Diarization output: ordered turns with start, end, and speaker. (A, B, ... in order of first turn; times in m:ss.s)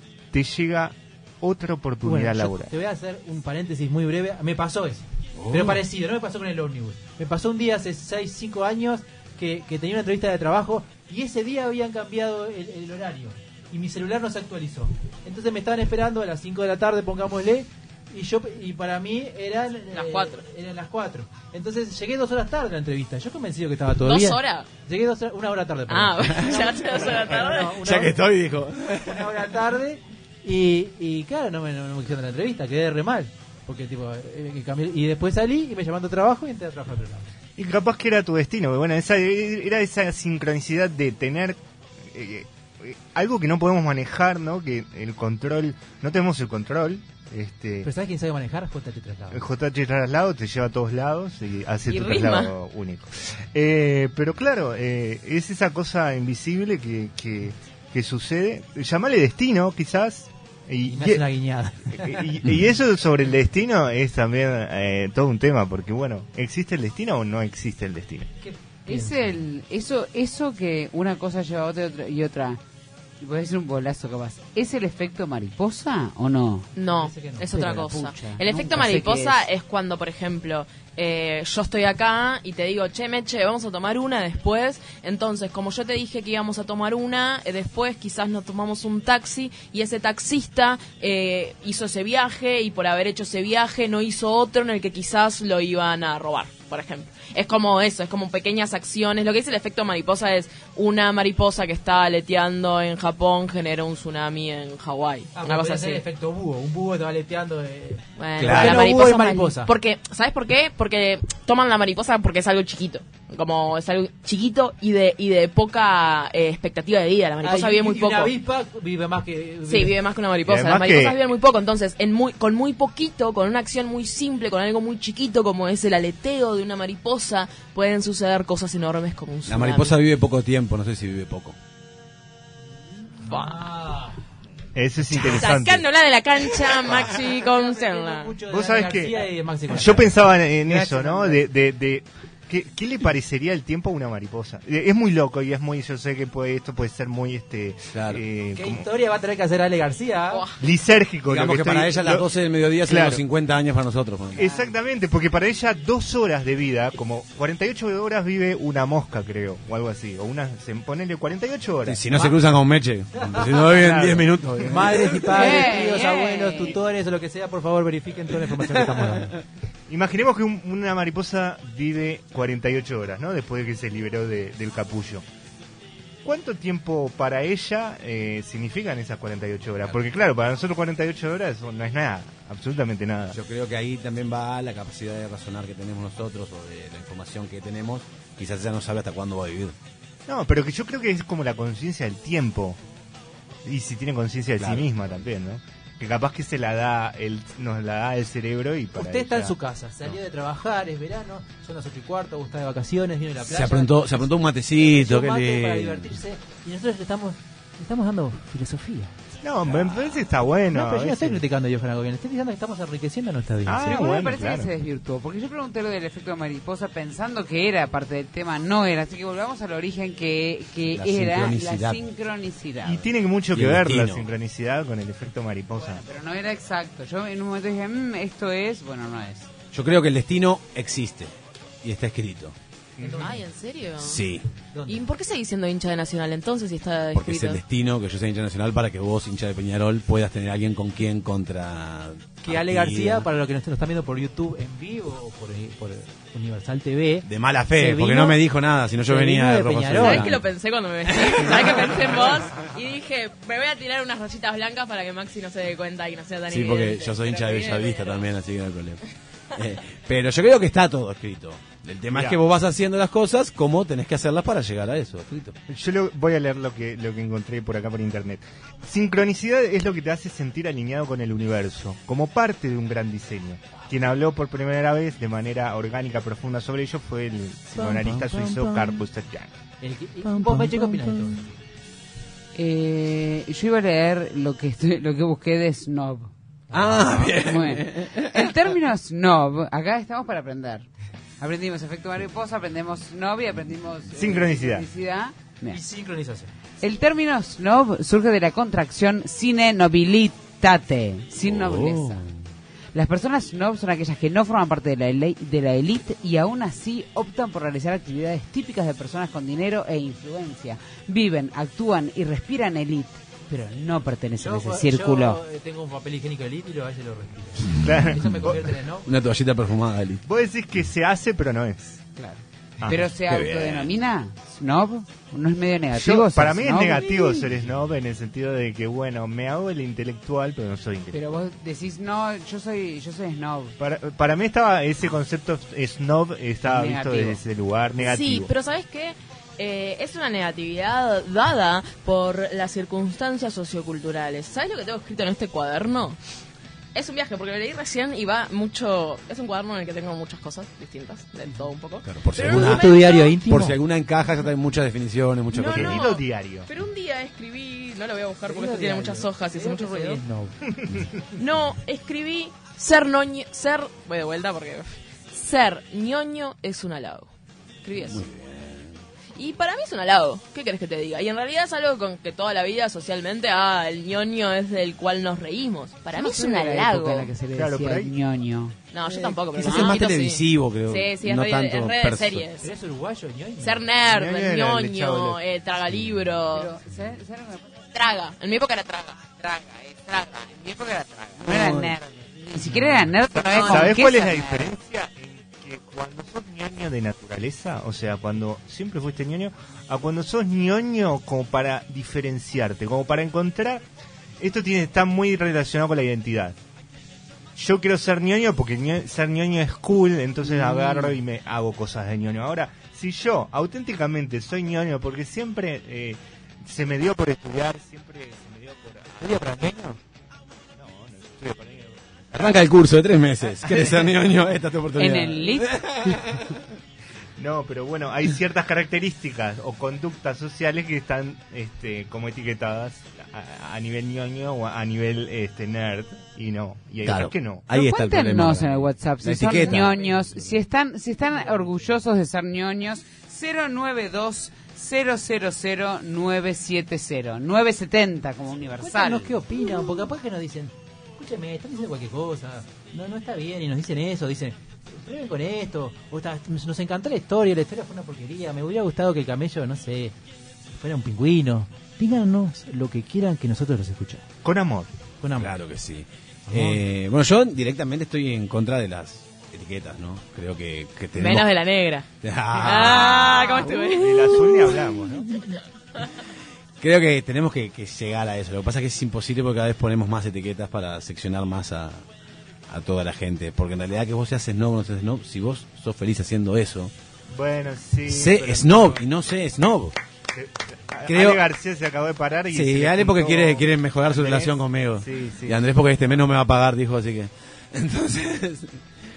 0:00.3-0:02.7 A
0:02.0-0:28.1 B
0:05.4-0:05.8 C
0:19.9-0:20.4 D
0:24.0-0:24.7 D
0:25.9-0:27.8 D
0:26.2-0:26.6 C
0:27.3-0:29.5 C
0:29.1-0:37.3 B
0:37.6-0:47.9 A
0:47.8-0:49.4 B
0:49.3-1:01.2 A
0:51.8-0:52.5 D
1:00.9-1:02.4 B
1:01.9-1:08.3 A
1:08.4-1:09.3 B
1:08.8-1:12.6 E
1:13.2-1:16.7 E
1:16.7-1:46.0 D
1:16.9-1:17.7 B
1:17.5-1:19.5 E
1:45.3-1:49.7 B
1:48.2-1:58.4 D
1:48.4-1:48.8 C
1:57.4-2:00.0 B
1:59.6-2:10.0 D
2:00.4-2:01.2 A
2:09.4-2:11.6 C
2:13.2-2:13.7 D
2:13.3-2:14.1 B
2:14.7-2:15.8 A
2:15.2-2:18.4 D
2:17.3-2:21.4 B
2:18.5-2:28.9 A
2:27.9-2:28.2 C
2:28.5-2:30.4 B
2:30.3-2:30.6 D
2:30.6-2:32.3 A
2:31.3-2:34.4 C
2:32.8-2:33.2 A
2:34.3-2:34.7 D
2:34.3-2:42.1 A
2:41.8-2:45.6 C
2:43.3-2:43.6 B
2:43.7-2:45.3 A
2:44.7-2:49.3 B
2:45.3-2:46.8 E
2:48.4-2:49.3 C
2:49.9-2:55.2 A
2:56.2-3:03.4 A
3:03.3-3:09.8 C
3:10.3-3:12.8 A
3:13.6-3:20.1 A
3:14.6-3:15.2 C
3:19.0-3:24.2 B
3:23.4-3:26.2 C
3:24.8-3:29.1 B
3:29.4-3:31.4 A
3:30.7-3:33.8 B
3:33.6-3:34.7 A
3:33.8-3:43.1 E
3:40.9-3:42.0 C
3:42.8-3:46.0 A
3:43.5-3:44.3 C
3:45.8-3:49.5 E
3:49.7-3:52.5 C
3:53.0-3:53.4 A
3:53.0-3:53.4 B
3:53.2-3:54.2 D
3:54.0-3:54.4 C
3:54.7-3:55.0 B
3:54.9-3:57.6 D
3:57.1-4:03.3 C
4:02.4-4:07.2 B
4:07.2-4:10.4 C
4:07.8-4:08.4 B
4:09.1-4:10.2 B
4:10.0-4:18.2 D
4:11.1-4:12.2 C
4:16.5-4:19.0 C
4:19.5-4:25.5 C
4:22.1-4:22.4 A
4:25.7-4:39.5 A
4:37.7-4:39.0 C
4:39.8-4:41.5 B
4:40.2-4:41.4 C
4:42.5-4:46.3 E
4:46.7-4:47.3 B
4:46.7-4:48.7 C
4:47.1-4:50.9 E
4:51.4-4:55.8 E
4:54.2-4:54.9 A
4:55.7-4:56.5 B
4:56.8-5:02.2 E
5:01.4-5:02.4 C
5:02.9-5:15.4 E
5:14.4-5:19.1 B
5:17.7-5:18.7 A
5:19.0-5:20.2 C
5:20.2-5:22.0 A
5:22.2-5:27.5 E
5:22.8-5:23.1 A
5:23.3-5:23.9 C
5:25.9-5:31.3 A
5:31.1-5:33.8 E
5:33.8-5:38.5 A
5:36.6-5:37.4 E
5:38.0-5:46.2 D
5:46.9-5:53.4 D
5:52.0-5:56.0 C
5:52.5-5:53.8 B
5:55.5-6:00.2 D
5:55.7-5:56.7 A
5:58.4-6:00.6 B
6:01.3-6:07.3 D
6:07.8-6:08.2 D
6:08.0-6:09.0 C
6:09.4-6:17.3 D
6:16.1-6:18.8 E
6:17.5-6:18.1 A
6:18.9-6:22.7 D
6:19.1-6:22.5 C
6:22.6-6:23.8 B
6:23.6-6:26.7 D
6:24.1-6:25.4 A
6:26.5-6:27.7 E
6:27.9-6:29.2 D
6:29.4-6:34.7 E
6:31.4-6:31.9 C
6:33.3-6:43.8 A
6:33.5-6:34.0 D
6:44.4-6:46.6 A
6:47.6-7:00.0 A
7:00.8-7:02.7 A
7:02.3-7:06.6 C
7:05.0-7:05.7 E
7:07.4-7:17.7 A
7:17.0-7:20.5 C
7:17.7-7:29.3 E
7:19.6-7:20.2 B
7:21.3-7:21.7 B
7:28.8-7:40.1 B
7:40.7-7:44.2 B
7:44.4-7:44.9 A
7:45.2-7:45.5 B
7:45.3-7:51.5 C
7:46.5-7:46.8 B
7:51.1-7:54.9 D
7:52.2-7:53.9 C
7:54.0-7:55.3 A
7:56.8-8:02.0 C
8:02.7-8:06.9 C
8:07.3-8:09.0 A
8:08.1-8:10.0 C
8:10.3-8:15.6 A
8:11.1-8:11.4 C
8:12.5-8:18.8 C